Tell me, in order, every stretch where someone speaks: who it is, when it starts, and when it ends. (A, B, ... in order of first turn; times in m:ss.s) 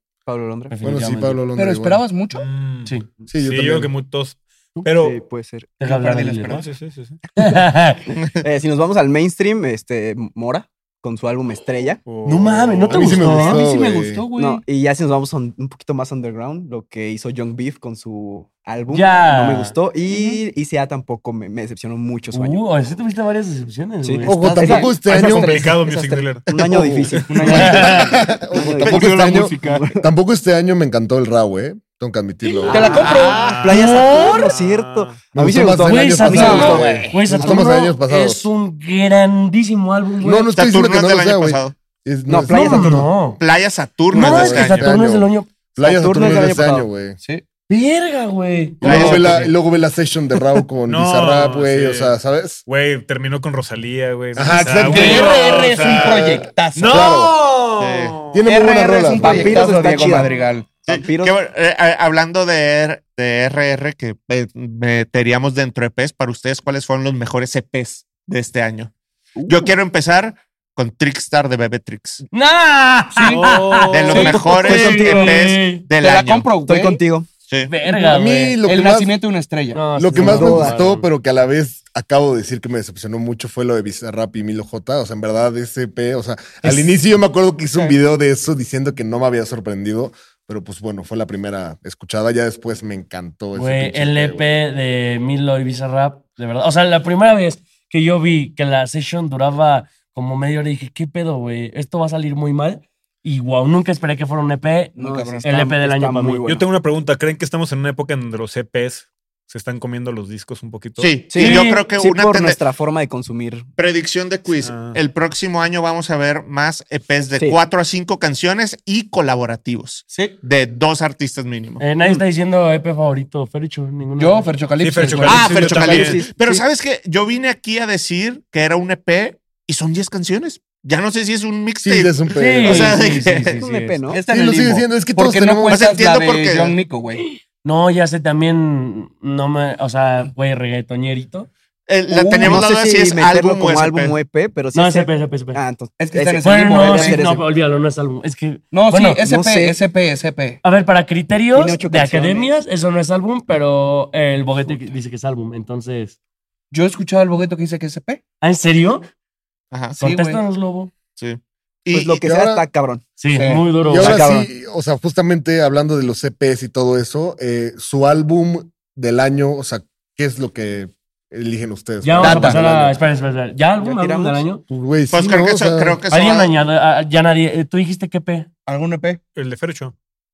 0:00.3-0:00.7 A
0:00.7-0:01.4 B
0:00.8-0:02.0 C
0:01.6-0:02.5 D
0:02.3-0:05.2 E
0:03.3-0:03.9 C
0:05.0-0:05.8 A
0:05.8-0:06.6 B
0:05.8-0:06.7 D
0:06.5-0:07.2 E
0:07.4-0:08.0 B
0:08.4-0:12.0 A
0:12.1-0:13.2 E
0:12.2-0:13.6 B
0:12.9-0:14.2 C
0:13.1-0:14.6 D
0:14.4-0:22.6 A
0:18.9-0:20.4 B
0:22.3-0:24.9 B
0:24.0-0:30.0 A
0:24.2-0:25.6 C
0:25.1-0:26.6 E
0:26.7-0:28.2 D
0:27.4-0:28.1 B
0:27.5-0:33.1 C
0:28.8-0:29.6 F
0:32.7-0:35.2 E
0:32.7-0:33.5 D
0:32.7-0:37.7 A
0:32.9-0:33.7 F
0:33.7-0:34.5 B
0:35.3-0:38.4 C
0:35.8-0:40.6 B
0:36.3-0:37.3 D
0:40.2-0:43.2 C
0:40.6-0:41.8 F
0:42.3-0:43.1 A
0:42.5-0:43.4 B
0:43.4-0:44.9 F
0:44.1-0:47.2 C
0:44.1-0:45.5 B
0:44.4-0:44.9 E
0:45.8-0:46.9 A
0:47.7-0:49.5 B
0:48.8-0:52.6 C
0:48.9-0:49.1 D
0:50.9-0:58.4 E
0:54.4-0:57.3 C
0:54.9-0:57.1 D
0:57.8-0:58.3 F
0:58.3-0:59.8 C
0:58.4-1:00.8 D
0:59.2-1:00.3 A
1:00.8-1:01.4 A
1:00.9-1:08.9 F
1:09.4-1:09.7 D
1:09.5-1:12.2 F
1:12.3-1:15.8 B
1:13.2-1:14.6 E
1:13.9-1:16.6 F
1:14.1-1:15.4 D
1:16.0-1:17.0 D
1:16.6-1:17.3 A
1:17.5-1:17.7 F
1:17.7-1:18.6 B
1:17.9-1:19.1 C
1:18.6-1:20.3 D
1:19.7-1:21.1 B
1:20.0-1:34.5 C
1:20.2-1:20.8 A
1:33.5-1:46.5 B
1:45.0-1:45.5 D
1:45.0-1:46.6 A
1:46.5-1:51.1 E
1:51.0-1:52.6 F
1:51.3-1:53.7 A
1:51.4-1:51.8 B
1:53.8-2:01.8 F
1:54.6-1:55.0 E
2:00.1-2:00.4 D
2:01.8-2:04.5 B
2:04.2-2:06.1 D
2:04.8-2:06.2 E
2:05.0-2:05.4 B
2:05.2-2:13.6 F
2:05.8-2:06.6 A
2:11.8-2:13.0 C
2:12.3-2:14.0 B
2:13.6-2:14.2 A
2:14.1-2:17.2 D
2:14.3-2:15.8 C
2:15.7-2:16.8 F
2:17.2-2:21.5 B
2:21.9-2:24.2 F
2:22.1-2:22.6 D
2:22.4-2:27.4 A
2:24.7-2:25.6 B
2:26.0-2:27.2 D
2:26.4-2:29.2 B
2:28.7-2:30.6 D
2:29.2-2:29.8 A
2:30.6-2:36.2 B
2:31.5-2:32.5 D
2:36.7-2:38.2 D
2:38.4-2:39.1 B
2:39.7-2:40.0 F
2:40.0-2:40.4 D
2:40.0-2:40.9 B
2:41.2-2:42.2 F
2:41.9-2:43.0 A
2:42.2-2:42.6 C
2:43.2-2:44.2 B
2:43.3-2:43.8 D
2:43.8-2:53.0 C
2:44.0-2:44.5 A
2:52.0-2:54.6 B
2:52.2-2:52.6 D
2:53.8-2:54.4 A
2:54.7-2:56.0 C
2:55.1-2:56.5 F
2:56.1-2:58.5 B
2:58.7-2:59.2 D
2:59.4-3:00.0 E